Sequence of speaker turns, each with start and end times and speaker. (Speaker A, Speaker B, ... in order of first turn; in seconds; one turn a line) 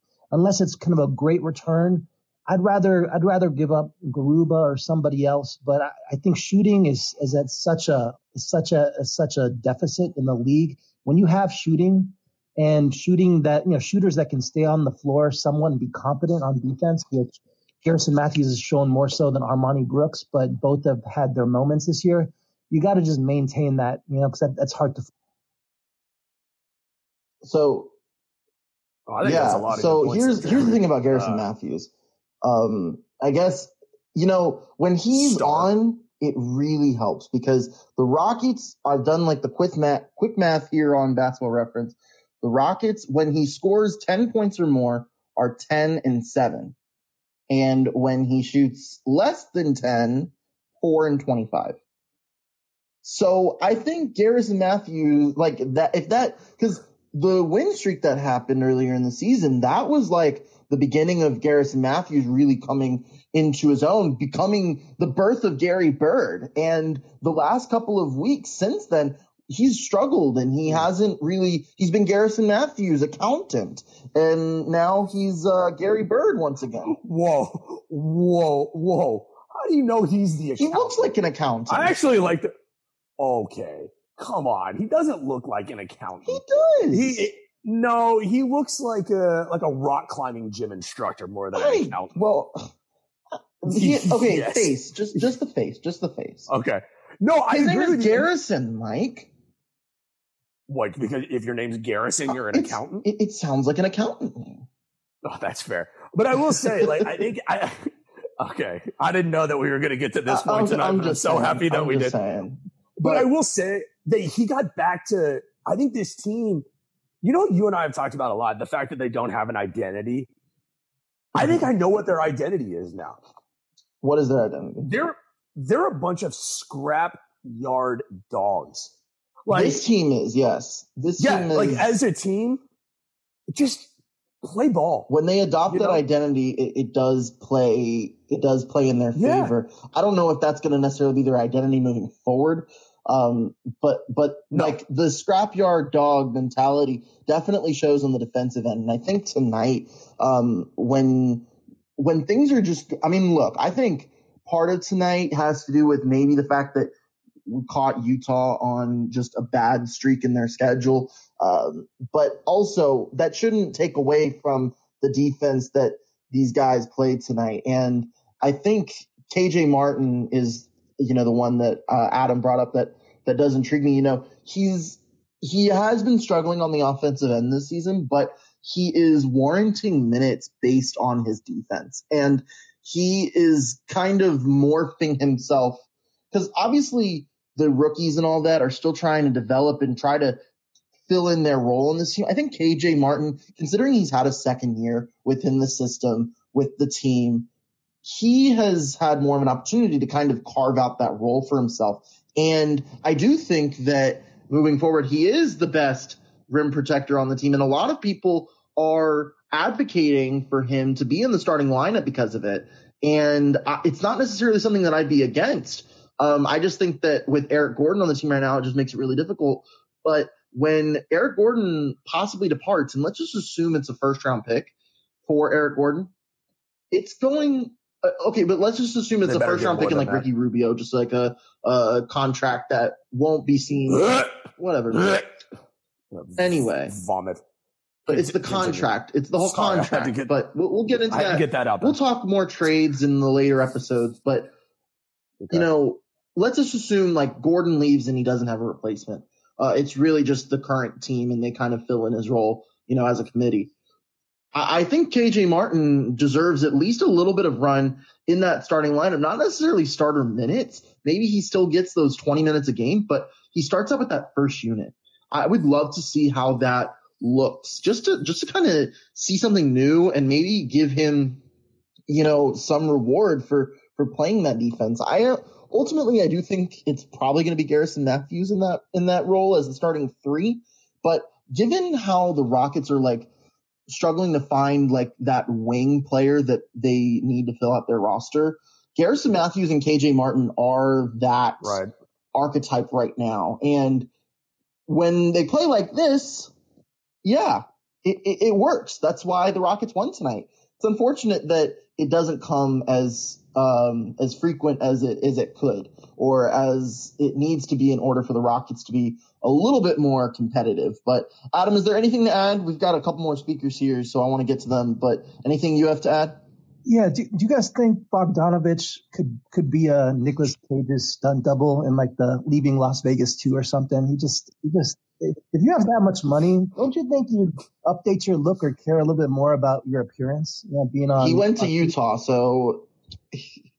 Speaker A: 0.3-25.1
Speaker B: 27.4-27.9
Speaker C: 29.1-31.4
Speaker B: 29.2-31.9
Speaker B: 32.4-46.7
Speaker C: 35.1-35.7
Speaker B: 47.5-51.8
Speaker B: 53.0-77.0
Speaker C: 76.9-81.1
Speaker B: 80.6-82.0
Speaker C: 81.7-82.5
Speaker C: 83.2-92.1
Speaker B: 86.2-87.3
Speaker B: 91.5-92.7
Speaker B: 93.6-96.5
Speaker C: 93.7-95.3
Speaker C: 96.5-98.3
Speaker B: 97.5-99.3
Speaker C: 100.7-103.0
Speaker B: 102.3-104.7
Speaker C: 105.2-112.1
Speaker B: 106.3-107.1
Speaker B: 110.3-113.3
Speaker C: 113.0-116.6
Speaker C: 117.2-120.3
Speaker B: 121.3-121.6
Speaker C: 121.3-123.2
Speaker B: 124.0-124.9
Speaker C: 124.8-128.9
Speaker C: 129.4-129.8
Speaker B: 129.5-131.9
Speaker C: 131.2-132.6
Speaker C: 133.5-133.9
Speaker C: 134.4-135.1
Speaker B: 135.1-156.9
Speaker C: 135.7-136.0
Speaker C: 139.2-139.5
Speaker B: 157.5-190.4
Speaker B: 191.1-197.5
Speaker B: 198.0-224.7
Speaker B: 225.2-226.1
Speaker B: 226.9-235.2
Speaker C: 229.2-230.2
Speaker C: 234.0-234.3
Speaker C: 235.0-235.2
Speaker C: 236.1-237.4
Speaker B: 236.4-236.9
Speaker B: 238.1-244.5
Speaker C: 238.1-240.3
Speaker C: 241.1-242.0
Speaker C: 245.4-245.7
Speaker B: 245.5-253.7
Speaker B: 254.5-271.4
Speaker B: 272.1-283.3
Speaker B: 283.9-291.8
Speaker C: 291.6-291.9
Speaker B: 292.3-294.1
Speaker B: 294.9-296.5
Speaker B: 297.2-316.4
Speaker A: 316.8-331.9
Speaker B: 331.2-333.4